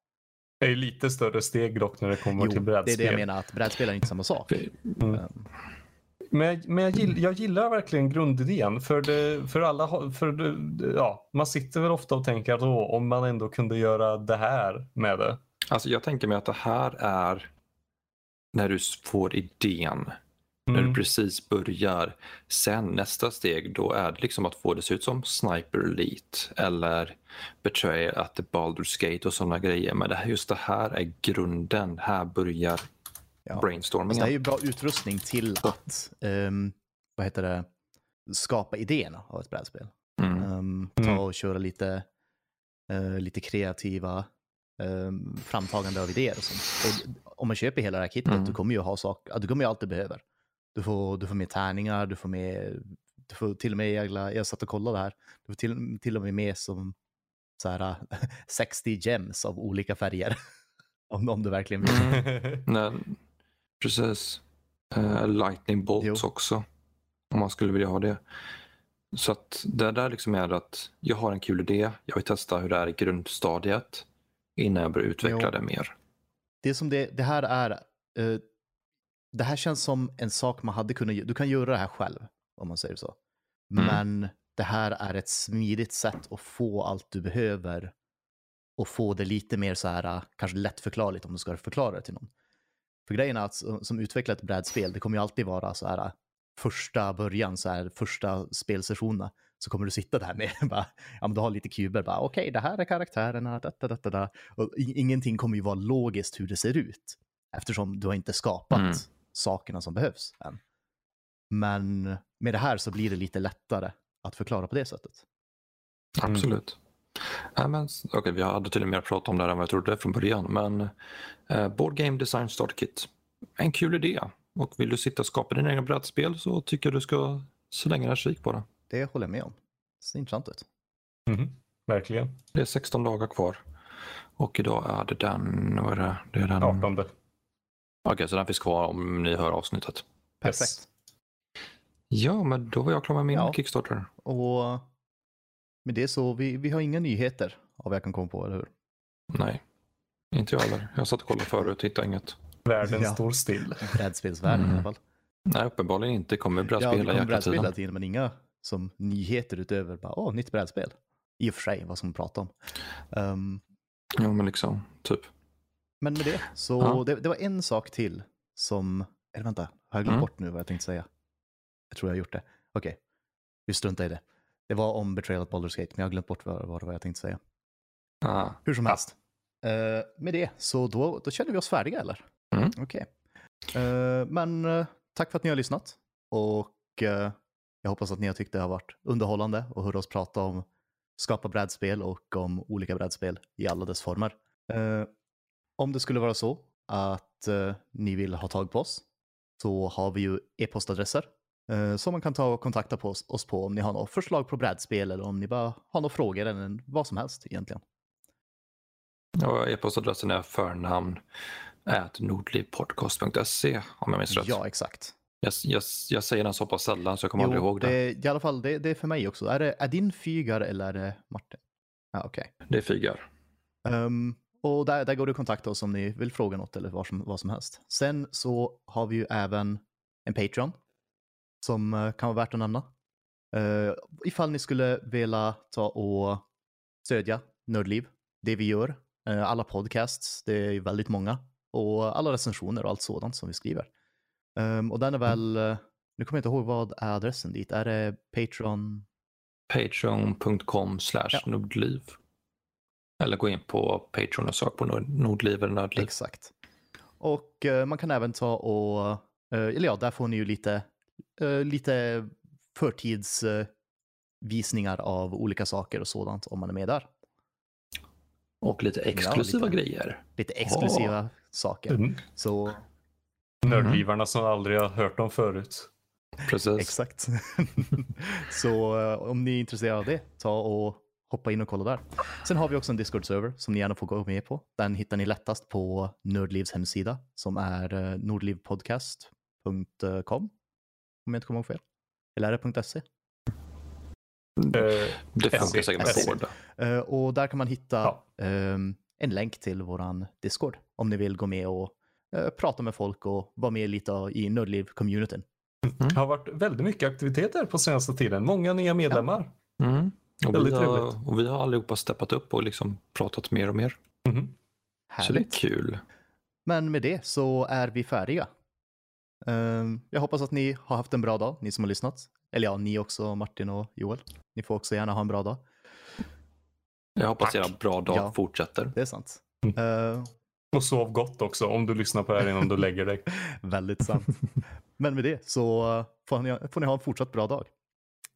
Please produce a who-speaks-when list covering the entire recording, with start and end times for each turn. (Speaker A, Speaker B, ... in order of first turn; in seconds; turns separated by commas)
Speaker A: 0.6-3.3, Speaker B: 2.4-5.4, Speaker A: 6.3-15.4, Speaker C: 15.7-17.5, Speaker C: 18.5-20.2, Speaker A: 20.7-21.0, Speaker C: 20.7-32.9, Speaker B: 33.5-37.7, Speaker C: 33.5-34.4, Speaker B: 38.3-42.1, Speaker C: 40.2-40.5, Speaker B: 42.9-50.2, Speaker C: 48.3-48.6, Speaker B: 50.8-57.0, Speaker B: 57.6-60.4, Speaker B: 61.1-62.2, Speaker C: 61.8-63.2, Speaker A: 62.0-62.6, Speaker C: 63.8-66.7, Speaker C: 67.3-68.2, Speaker C: 69.1-74.0, Speaker C: 74.6-75.9, Speaker B: 75.2-75.5, Speaker B: 76.6-78.4, Speaker B: 79.3-83.2, Speaker B: 83.7-87.9, Speaker B: 88.8-92.3, Speaker B: 93.1-110.6, Speaker C: 108.7-109.0, Speaker B: 111.5-115.2, Speaker C: 116.2-120.9, Speaker C: 121.5-128.7, Speaker B: 128.9-130.7, Speaker A: 131.3-132.4, Speaker C: 132.6-133.6, Speaker C: 134.4-136.9, Speaker A: 136.6-137.1, Speaker C: 138.1-140.0, Speaker B: 140.4-140.9, Speaker A: 140.4-140.8, Speaker C: 142.1-144.1, Speaker B: 143.3-143.6, Speaker B: 144.2-144.9, Speaker B: 145.8-148.7, Speaker C: 149.3-149.6, Speaker C: 150.3-152.4, Speaker A: 152.7-154.0, Speaker B: 152.8-153.2, Speaker B: 153.8-155.0, Speaker C: 154.5-154.9, Speaker C: 155.5-157.7, Speaker B: 156.8-162.5, Speaker B: 163.1-163.6, Speaker C: 164.2-165.3, Speaker B: 166.0-171.1, Speaker B: 171.9-173.0, Speaker B: 173.7-177.4, Speaker C: 178.2-178.6, Speaker B: 178.7-183.1, Speaker B: 183.7-195.1, Speaker B: 195.8-199.1, Speaker B: 199.6-207.8, Speaker C: 209.4-211.2, Speaker C: 211.9-214.6, Speaker B: 214.3-215.2, Speaker C: 215.4-218.0, Speaker B: 217.4-221.6, Speaker B: 222.1-222.5, Speaker C: 222.7-223.3, Speaker B: 223.8-230.8, Speaker B: 231.6-232.9, Speaker B: 233.5-236.4, Speaker B: 237.0-243.9, Speaker B: 244.6-249.1, Speaker C: 249.7-252.2, Speaker C: 253.2-256.1, Speaker B: 256.0-256.5, Speaker B: 257.2-263.7, Speaker B: 264.4-267.1, Speaker C: 268.6-271.1, Speaker B: 269.1-269.8, Speaker B: 270.4-272.8, Speaker A: 271.9-272.2, Speaker A: 273.6-275.9, Speaker C: 273.7-274.0, Speaker C: 276.4-276.9, Speaker B: 276.8-290.5, Speaker B: 291.2-291.8, Speaker B: 292.4-293.0, Speaker C: 294.6-296.6, Speaker A: 294.7-296.4, Speaker B: 296.0-305.5, Speaker A: 305.9-309.5, Speaker C: 309.8-314.0, Speaker A: 310.5-311.1, Speaker A: 314.3-314.5, Speaker B: 315.1-315.6, Speaker C: 315.2-316.0, Speaker B: 316.7-318.5, Speaker B: 319.4-325.6, Speaker C: 327.2-328.9, Speaker B: 328.1-328.4, Speaker B: 328.9-330.3, Speaker A: 330.7-333.3, Speaker B: 333.4-334.4, Speaker B: 335.0-337.7